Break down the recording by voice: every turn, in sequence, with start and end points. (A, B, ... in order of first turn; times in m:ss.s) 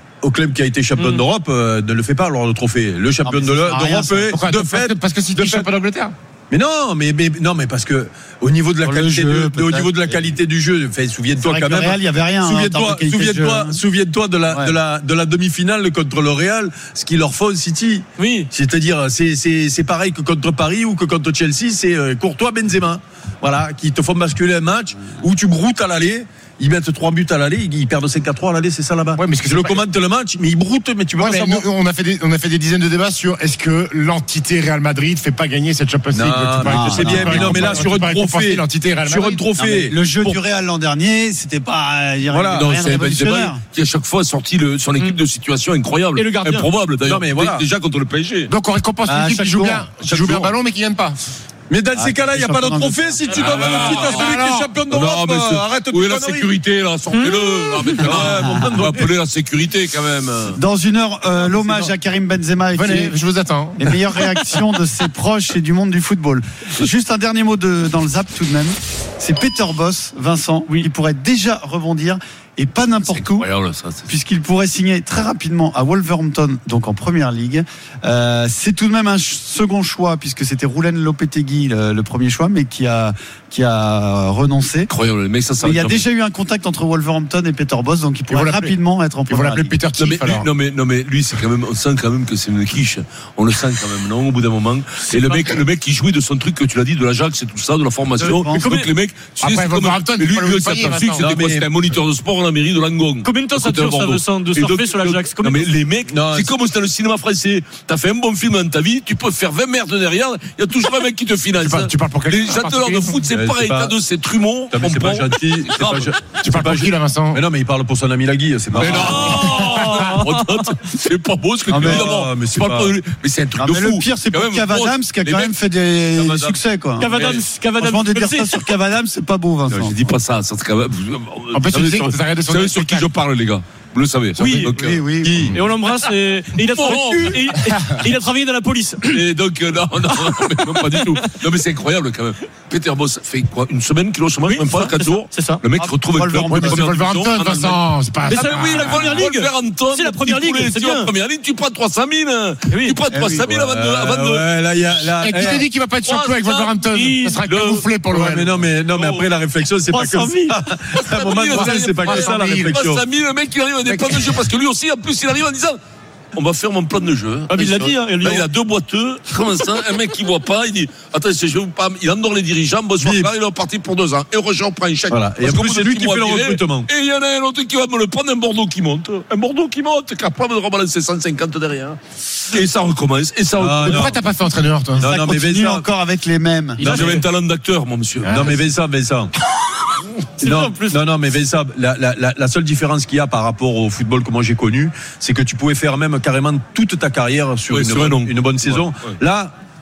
0:00.2-0:05.7 A
0:01.0-0:01.3 B
0:03.2-0:04.3 C
0:04.3-0:06.1 D
0:06.5-0:31.7 A
0:08.8-0:10.4 C
0:11.4-0:13.8 C
0:14.5-0:14.8 C
0:18.2-0:18.5 B
0:29.2-0:29.8 D
0:31.2-0:39.4 D
0:36.1-0:40.4 A
0:36.6-0:37.8 C
0:39.6-0:43.6 C
0:42.3-0:43.0 A
0:42.8-0:48.5 E
0:46.2-0:46.7 B
0:47.0-0:47.7 A
0:48.5-0:51.2 D
0:49.0-0:49.9 C
0:50.0-0:50.5 A
0:51.7-0:56.6 A
0:52.0-0:53.6 C
0:53.3-0:54.7 D
0:53.4-1:00.6 E
0:57.1-0:57.4 B
0:58.0-0:59.1 A
0:58.0-0:58.7 C
1:00.6-1:03.2 C
1:01.4-1:01.9 E
1:02.7-1:04.0 D
1:03.8-1:13.5 C
1:13.0-1:14.1 E
1:14.1-1:24.9 C
1:24.9-1:26.0 E
1:25.6-1:29.8 C
1:28.3-1:28.8 D
1:29.3-1:30.5 D
1:30.0-1:56.2 E
1:35.2-1:35.5 B
1:38.2-1:38.7 C
1:38.3-1:38.9 B
1:39.4-1:41.3 D
1:41.2-1:41.7 A
1:43.2-1:45.7 B
1:46.1-1:46.5 A
1:51.6-1:53.2 D
1:53.3-1:54.0 A
1:54.7-1:59.6 A
1:56.4-1:57.4 D
1:58.7-2:05.6 E
1:59.0-2:00.7 B
1:59.5-2:00.1 D
2:01.7-2:02.1 C
2:01.7-2:03.0 A
2:03.6-2:07.1 C
2:06.1-2:07.4 E
2:07.0-2:08.6 B
2:07.8-2:10.0 C
2:09.7-2:17.5 E
2:11.5-2:13.1 D
2:14.4-2:14.9 B
2:14.4-2:14.7 D
2:14.8-2:15.5 C
2:15.5-2:19.2 B
2:19.1-2:34.5 E
2:20.6-2:21.2 B
2:24.4-2:25.6 B
2:25.8-2:26.9 C
2:26.5-2:29.2 D
2:28.3-2:31.1 B
2:32.7-2:33.0 B
2:33.1-2:33.5 C
2:33.4-2:35.7 A
2:35.0-2:38.6 D
2:36.0-2:36.7 E
2:36.9-2:37.4 B
2:37.4-2:37.8 E
2:38.1-2:43.0 A
2:38.9-2:39.3 E
2:39.8-2:40.6 B
2:40.9-2:45.8 E
2:41.5-2:42.8 D
2:43.8-2:44.4 D
2:46.3-3:04.2 E
2:47.5-2:48.5 B
2:53.0-2:53.3 A
2:55.1-2:56.9 A
3:03.5-3:04.2 A
3:03.8-3:05.1 D
3:05.0-3:05.9 A
3:05.0-3:06.9 C
3:06.8-3:07.2 A
3:06.8-3:08.7 E
3:08.2-3:08.5 D
3:08.3-3:09.3 A
3:10.4-3:11.0 B
3:10.4-3:19.5 A
3:17.7-3:19.2 E